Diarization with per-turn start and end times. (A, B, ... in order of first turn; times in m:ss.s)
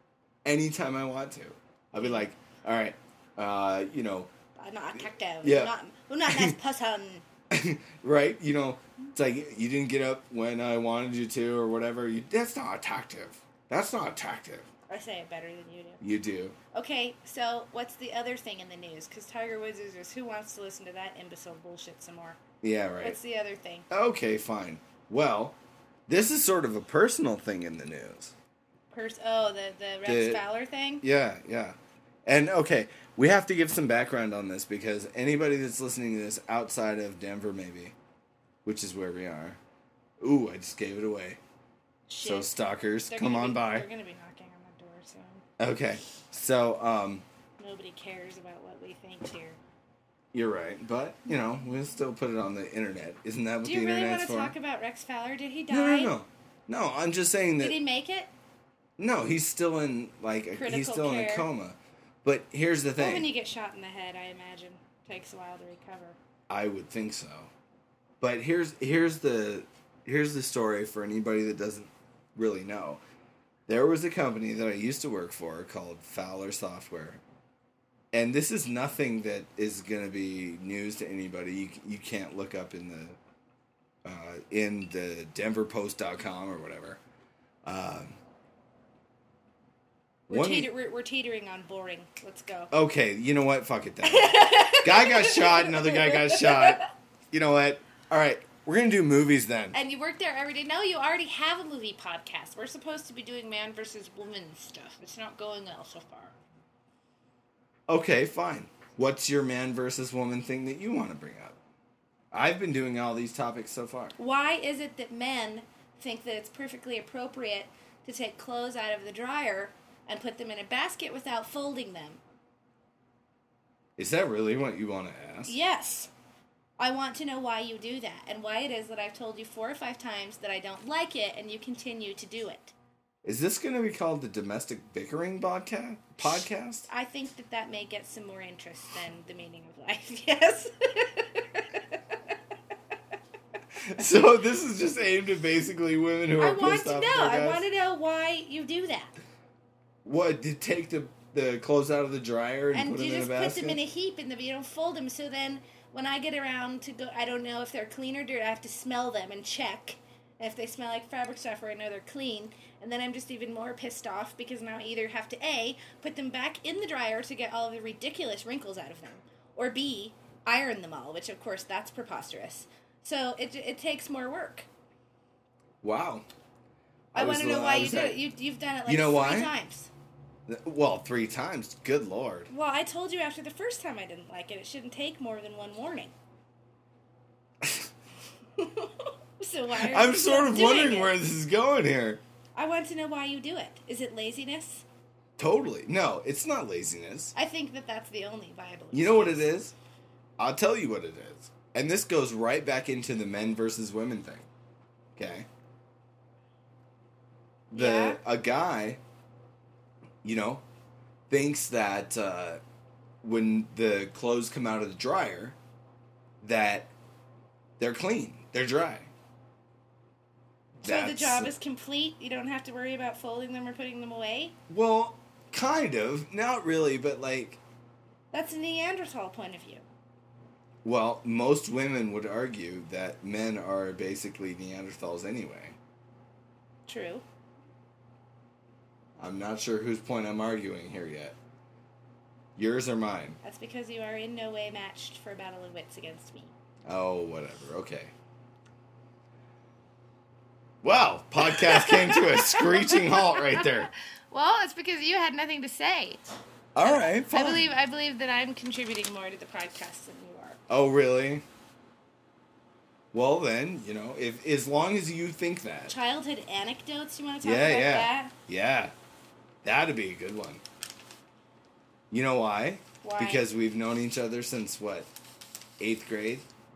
0:00.4-0:04.3 A
0:02.0-0:02.3 B
0:04.6-0:07.2 B
0:05.4-0:05.7 A
0:06.3-0:06.6 A
0:07.5-0:14.7 A
0:14.9-0:16.0 B
0:16.0-0:16.6 A
0:16.7-0:22.4 B
0:22.6-0:23.2 A
0:23.0-0:23.9 B
0:23.9-0:28.4 A
0:28.9-0:31.0 B
0:30.0-0:30.4 A
0:31.0-0:38.0 A
0:38.6-0:39.6 A
0:40.2-0:41.4 A
0:42.1-0:45.4 B
0:42.2-0:43.9 A
0:45.6-0:47.2 A
0:47.6-0:49.6 B
0:50.3-0:54.6 A
0:53.6-0:56.1 B
0:55.7-0:57.8 A
0:57.6-0:58.3 B
0:59.0-1:03.3 A
1:00.6-1:01.5 B
1:03.0-1:06.2 B
1:06.5-1:07.5 A
1:08.2-1:13.0 A
1:13.7-1:17.2 A
1:18.1-1:23.2 A
1:24.0-1:27.0 A
1:27.6-1:28.2 A
1:30.3-1:30.7 A
1:30.3-1:32.7 B
1:32.7-1:39.8 A
1:34.0-1:36.8 B
1:39.7-1:46.4 B
1:47.9-1:51.6 A
1:52.3-1:54.2 A
1:54.2-2:02.2 B
2:04.0-2:05.6 A
2:05.5-2:06.1 B
2:06.8-2:12.7 B
2:13.2-2:16.9 A
2:16.9-2:22.2 B
2:23.8-2:27.6 A
2:26.4-2:29.1 B
2:30.0-2:33.8 A
2:32.7-2:54.7 B
2:55.8-2:56.3 A
2:57.1-2:58.2 A
2:57.1-2:59.9 B
2:58.9-2:59.5 A
3:00.5-3:02.5 A
3:02.5-3:06.1 B
3:07.6-3:07.9 A
3:08.6-3:11.2 B
3:09.8-3:12.2 A
3:12.6-3:14.8 B
3:15.4-3:17.3 A
3:17.4-3:19.5 B
3:18.9-3:19.7 A
3:20.4-3:24.5 A
3:25.2-3:25.5 A
3:27.7-3:29.0 A
3:27.7-3:28.2 B
3:30.2-3:30.6 A
3:31.3-3:32.6 A
3:33.2-3:35.6 A
3:36.4-3:36.9 A
3:37.8-3:39.1 A
3:40.8-3:41.5 A
3:40.8-3:44.6 B
3:44.7-3:47.6 A
3:48.3-3:49.8 B
3:50.8-3:55.8 A
3:56.9-3:57.2 B
3:59.2-4:01.4 A
4:02.6-4:03.4 A
4:03.4-4:06.5 B
4:06.9-4:08.1 A
4:10.8-4:13.9 A
4:11.4-4:16.3 B
4:16.8-4:17.7 A
4:16.8-4:20.6 B
4:20.7-4:21.4 A
4:23.1-4:25.9 A
4:25.9-4:28.3 B
4:27.4-4:28.9 A
4:29.6-4:30.6 A
4:32.1-4:35.1 A
4:33.0-4:33.5 B
4:35.8-4:36.5 A